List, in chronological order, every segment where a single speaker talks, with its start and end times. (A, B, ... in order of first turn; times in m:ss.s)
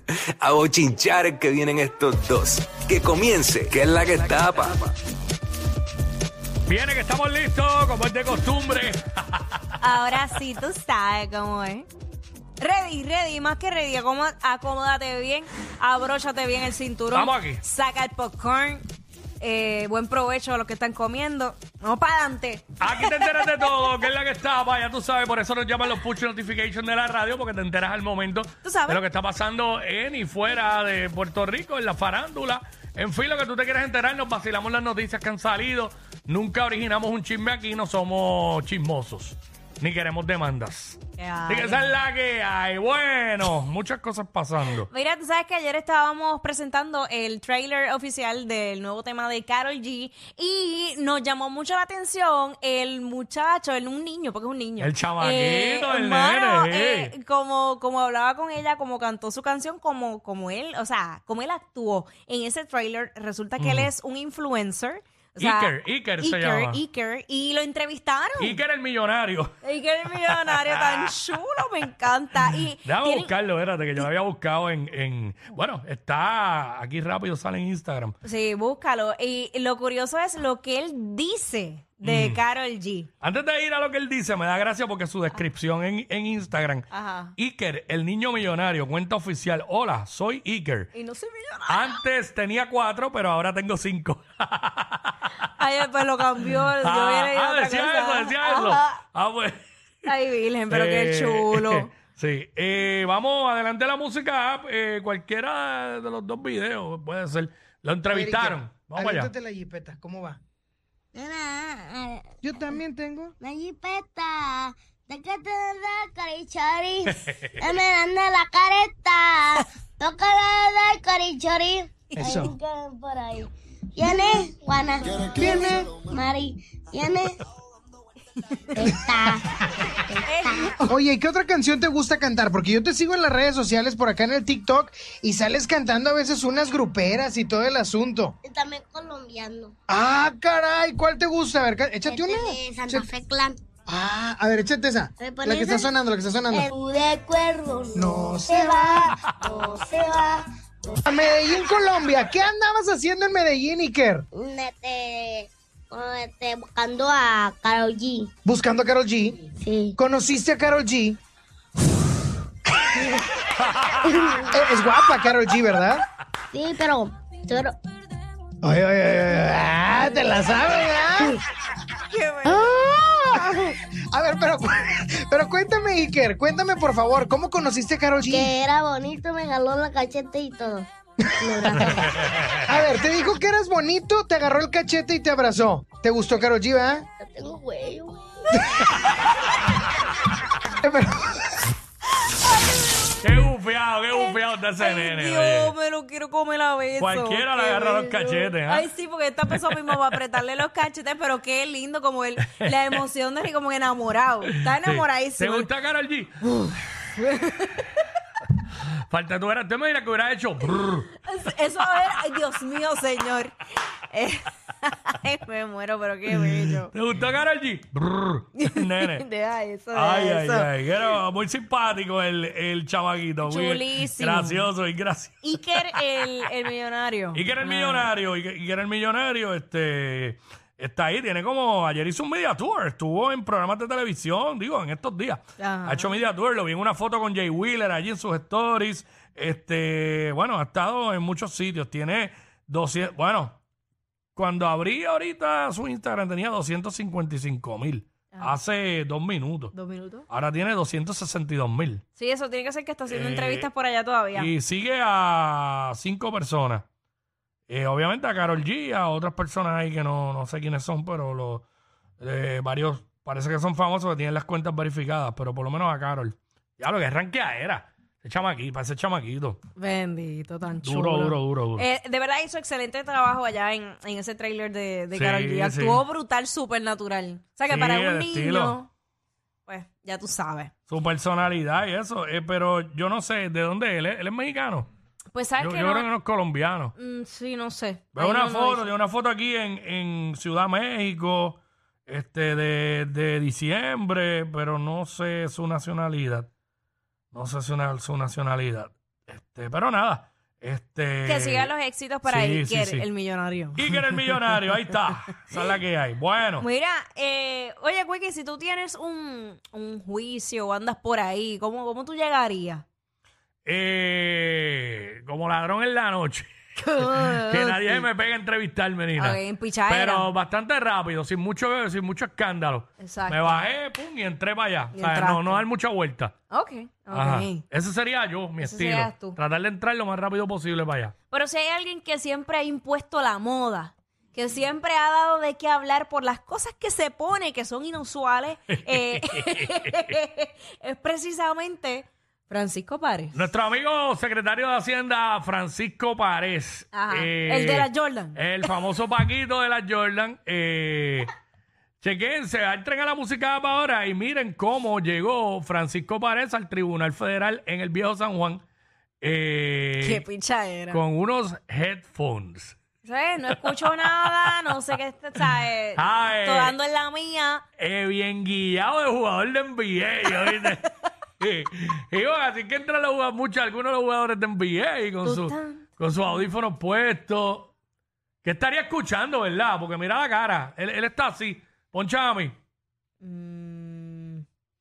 0:00.4-0:04.9 A
0:06.7-0:09.8 B
0:09.8-0:11.9 C
0:12.6-0:18.9 C
0:17.1-0:17.6 B
0:19.4-0:24.0 C
0:22.8-0:44.9 B
0:28.6-0:29.0 C
0:41.2-0:41.9 C
0:44.9-1:08.6 C
0:54.8-0:57.2 B
1:03.6-1:03.9 B
1:05.4-1:06.8 B
1:08.4-1:09.5 B
1:09.6-1:13.3 C
1:10.3-1:11.2 B
1:12.8-1:18.2 B
1:18.2-1:23.1 C
1:22.0-1:22.4 B
1:23.2-1:30.9 B
1:26.9-1:27.3 C
1:30.9-1:32.0 C
1:31.7-1:35.2 B
1:35.5-1:39.0 C
1:36.7-1:40.1 B
1:40.0-1:41.9 C
1:40.7-1:49.3 B
1:48.1-1:50.4 D
1:51.1-1:52.4 E
1:52.4-1:53.3 D
1:53.4-2:07.4 E
1:57.1-1:57.6 B
2:02.2-2:02.5 D
2:05.3-2:05.9 D
2:08.7-2:10.8 E
2:10.3-2:10.9 C
2:10.8-2:18.4 D
2:18.4-2:19.7 E
2:19.9-2:23.1 D
2:22.0-2:23.6 E
2:23.9-2:26.7 D
2:25.2-2:25.9 E
2:26.5-2:30.4 E
2:28.0-2:29.1 D
2:31.0-2:34.3 D
2:34.3-2:38.3 E
2:38.4-2:39.4 D
2:39.6-2:40.0 E
2:40.0-2:41.2 D
2:43.6-2:44.2 B
2:44.0-2:44.6 E
2:44.5-2:46.0 D
2:46.5-2:47.8 E
2:48.6-2:51.4 D
2:52.1-2:52.8 C
2:52.5-2:58.5 D
2:58.3-3:00.9 E
3:01.4-3:02.2 E
3:01.7-3:01.9 D
3:02.1-3:02.7 B
3:02.7-3:07.0 D
3:07.2-3:08.6 E
3:08.9-3:09.3 B
3:10.8-3:11.5 D
3:13.2-3:15.8 B
3:14.1-3:25.7 C
3:17.0-3:18.9 B
3:22.4-3:23.0 B
3:24.5-3:26.4 B
3:26.5-3:27.9 C
3:28.9-3:31.1 B
3:31.2-3:36.9 C
3:36.8-3:39.2 B
3:38.6-3:41.0 C
3:40.0-3:46.0 B
3:43.4-3:44.7 C
3:45.4-3:48.1 C
3:47.4-4:03.6 B
3:55.6-3:56.2 C
4:04.4-4:09.7 B
4:09.7-4:10.3 C
4:10.3-4:12.0 B
4:12.2-4:14.5 C
4:13.1-4:13.7 B
4:14.4-4:16.9 B
4:17.7-4:21.7 B
4:22.2-4:29.6 B
4:29.8-4:38.9 C
4:30.8-4:31.9 B
4:35.1-4:36.0 B
4:37.7-4:38.8 B
4:39.7-4:40.7 C
4:40.9-4:44.9 B
4:45.3-4:46.1 C
4:45.6-4:46.9 B
4:47.0-4:48.9 C
4:48.1-4:56.5 B
4:57.3-5:01.7 B
5:01.2-5:04.6 C
5:02.3-5:03.1 B
5:03.8-5:06.7 B
5:06.6-5:12.8 C
5:13.6-5:26.3 B
5:16.8-5:18.0 C
5:19.2-5:20.3 C
5:23.0-5:23.7 C
5:24.9-5:25.6 C
5:26.5-5:27.6 C
5:27.1-5:31.2 B
5:28.6-5:29.4 C
5:31.3-5:43.4 C
5:39.0-5:40.1 B
5:43.3-5:51.3 B
5:46.9-5:48.7 C
5:52.0-5:58.6 B
5:59.2-6:00.2 B
6:00.0-6:01.0 C
6:00.9-6:02.8 B
6:03.0-6:07.6 C
6:03.6-6:04.8 B
6:05.4-6:06.8 B
6:07.8-6:10.8 B
6:10.4-6:10.8 C
6:11.4-6:17.7 B
6:15.2-6:16.4 C
6:18.4-6:22.6 B
6:23.2-6:24.4 C